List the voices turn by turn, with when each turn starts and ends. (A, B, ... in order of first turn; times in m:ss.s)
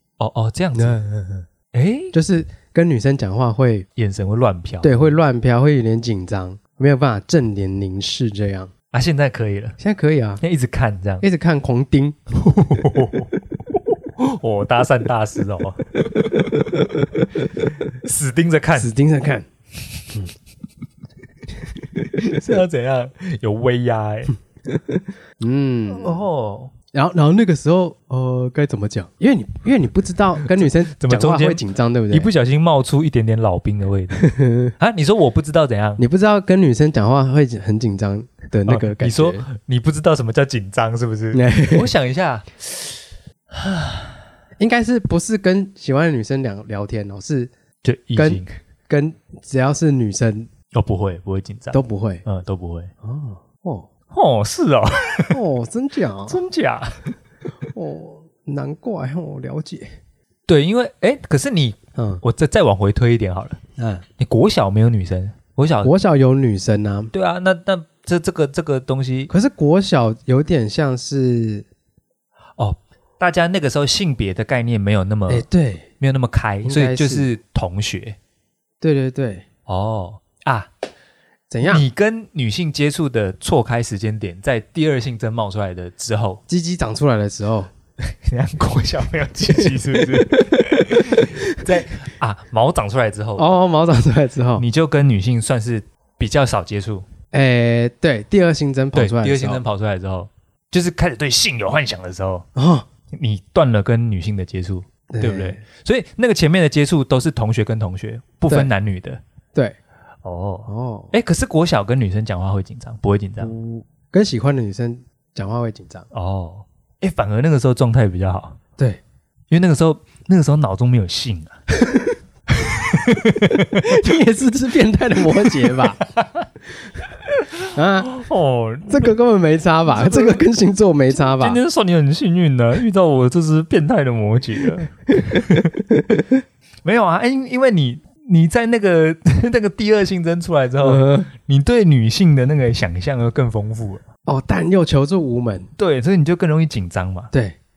0:00.2-0:01.0 A
0:00.7-0:01.4 B
0:01.7-0:02.1 A
0:02.1-0:03.9 B
0:04.0-0:05.1 A
0:04.8-0:08.7 B
0:08.9-0:09.8 A
0:09.8-0:10.4 B
0:10.4-0:11.2 A
0:11.2-0:12.2 B
0:12.4-0:16.9 A
0:16.1-0:17.2 B
0:17.9-0:18.9 A
0:18.7-0:19.5 B
0:22.2-0:24.3 A
0:24.7-0:26.2 B
0:25.9-0:26.7 A
0:26.9-0:32.3 B
0:30.6-0:34.2 A
0:34.1-0:34.7 B
0:34.8-0:36.0 A
0:36.0-0:39.5 B
0:38.6-0:44.2 A
0:41.3-0:41.9 B
0:44.6-0:47.5 B
0:47.8-0:48.5 A
0:48.2-0:50.5 B
0:50.7-0:52.9 A
0:51.7-0:52.2 B
0:53.0-0:53.9 B
0:54.1-0:55.4 A
0:55.3-0:56.4 B
0:56.3-0:57.0 A
0:57.7-0:59.9 B
1:00.5-1:03.6 A
1:02.0-1:02.2 B
1:03.8-1:04.0 B
1:04.2-1:05.9 A
1:05.8-1:07.1 B
1:07.1-1:09.3 A
1:09.3-1:11.7 B
1:12.6-1:15.4 A
1:15.3-1:15.9 B
1:16.0-1:18.2 A
1:16.6-1:17.3 B
1:18.8-1:19.4 B
1:19.7-1:20.7 A
1:21.5-1:21.8 B
1:21.6-1:26.4 A
1:26.5-1:27.7 B
1:28.0-1:33.4 A
1:29.6-1:31.6 B
1:33.4-1:34.6 B
1:34.6-1:37.0 A
1:37.3-1:39.6 B
1:38.9-1:42.5 A
1:42.5-1:42.9 B
1:43.1-1:49.2 A
1:45.1-1:45.6 B
1:50.2-1:53.5 A
1:50.6-1:51.1 B
1:53.4-1:56.1 B
1:56.1-1:58.6 A
1:59.5-2:01.6 A
2:01.8-2:02.1 B
2:02.5-2:04.0 A
2:03.5-2:06.0 B
2:05.4-2:06.5 A
2:07.4-2:09.1 A
2:07.7-2:08.2 B
2:08.9-2:11.6 B
2:09.9-2:10.4 A
2:11.1-2:15.7 A
2:15.1-2:16.4 B
2:16.8-2:24.0 A
2:20.8-2:21.3 B
2:24.2-2:25.7 B
2:25.8-2:27.3 A
2:27.3-2:27.6 B